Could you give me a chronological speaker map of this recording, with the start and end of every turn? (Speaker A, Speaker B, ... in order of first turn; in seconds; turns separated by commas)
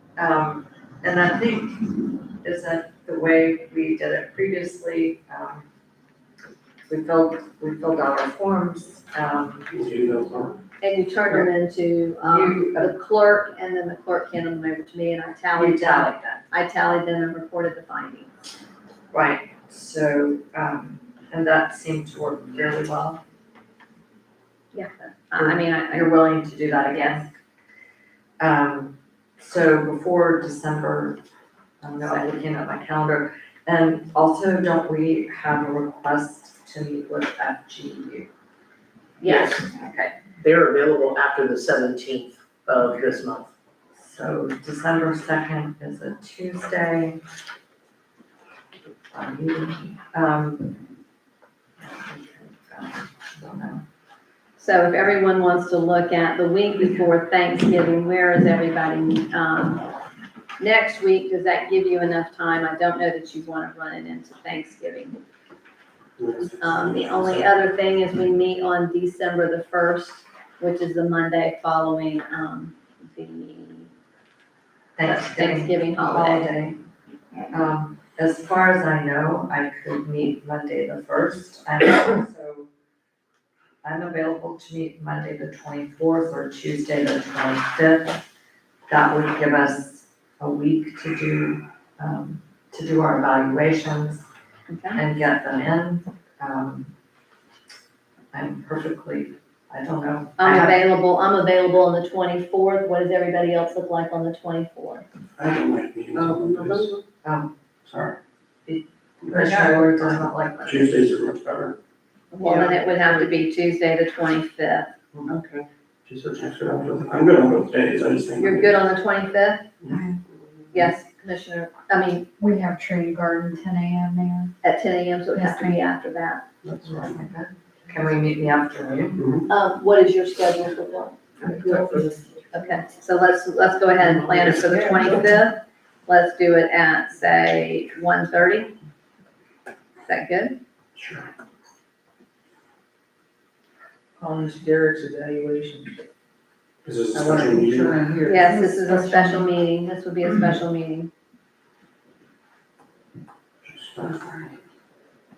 Speaker A: 0.1-5.7, Speaker A: 6.9-9.7, Speaker B: 9.7-10.6, Speaker C: 10.8-18.3, Speaker A: 12.2-12.9, Speaker A: 15.5-16.4, Speaker A: 19.1-23.2, Speaker C: 24.7-26.1, Speaker A: 25.3-27.3, Speaker A: 28.4-31.2, Speaker A: 31.8-38.3, Speaker C: 39.2-40.1, Speaker D: 39.2-39.7, Speaker D: 40.4-43.5, Speaker A: 44.0-47.2, Speaker A: 49.1-50.9, Speaker A: 51.8-53.8, Speaker C: 54.6-59.9, Speaker C: 60.6-65.2, Speaker B: 66.2-67.5, Speaker C: 66.6-73.9, Speaker A: 75.0-76.8, Speaker C: 75.0-76.5, Speaker A: 77.5-82.7, Speaker A: 83.8-88.2, Speaker A: 88.9-94.2, Speaker C: 94.7-95.0, Speaker A: 94.9-96.9, Speaker A: 98.3-100.8, Speaker C: 100.4-105.0, Speaker B: 105.4-106.9, Speaker A: 106.1-107.5, Speaker B: 107.8-108.2, Speaker A: 108.7-111.2, Speaker B: 109.2-109.5, Speaker E: 109.5-109.8, Speaker B: 110.6-111.8, Speaker C: 112.3-114.9, Speaker E: 112.4-113.3, Speaker E: 115.2-115.6, Speaker B: 116.0-118.9, Speaker C: 118.4-119.7, Speaker B: 119.8-120.1, Speaker F: 119.9-120.2, Speaker C: 120.7-122.3, Speaker F: 122.4-124.5, Speaker C: 124.6-126.4, Speaker F: 125.3-125.8, Speaker B: 126.6-127.1, Speaker A: 126.8-129.3, Speaker B: 129.2-129.4, Speaker C: 129.5-131.7, Speaker E: 131.4-132.2, Speaker A: 131.5-132.1, Speaker C: 132.5-138.7, Speaker E: 134.2-135.3, Speaker C: 140.1-140.6, Speaker B: 140.9-141.3, Speaker E: 144.2-145.9, Speaker B: 146.8-147.9, Speaker E: 147.1-148.7, Speaker C: 148.2-151.1, Speaker F: 148.4-149.4, Speaker B: 153.7-154.5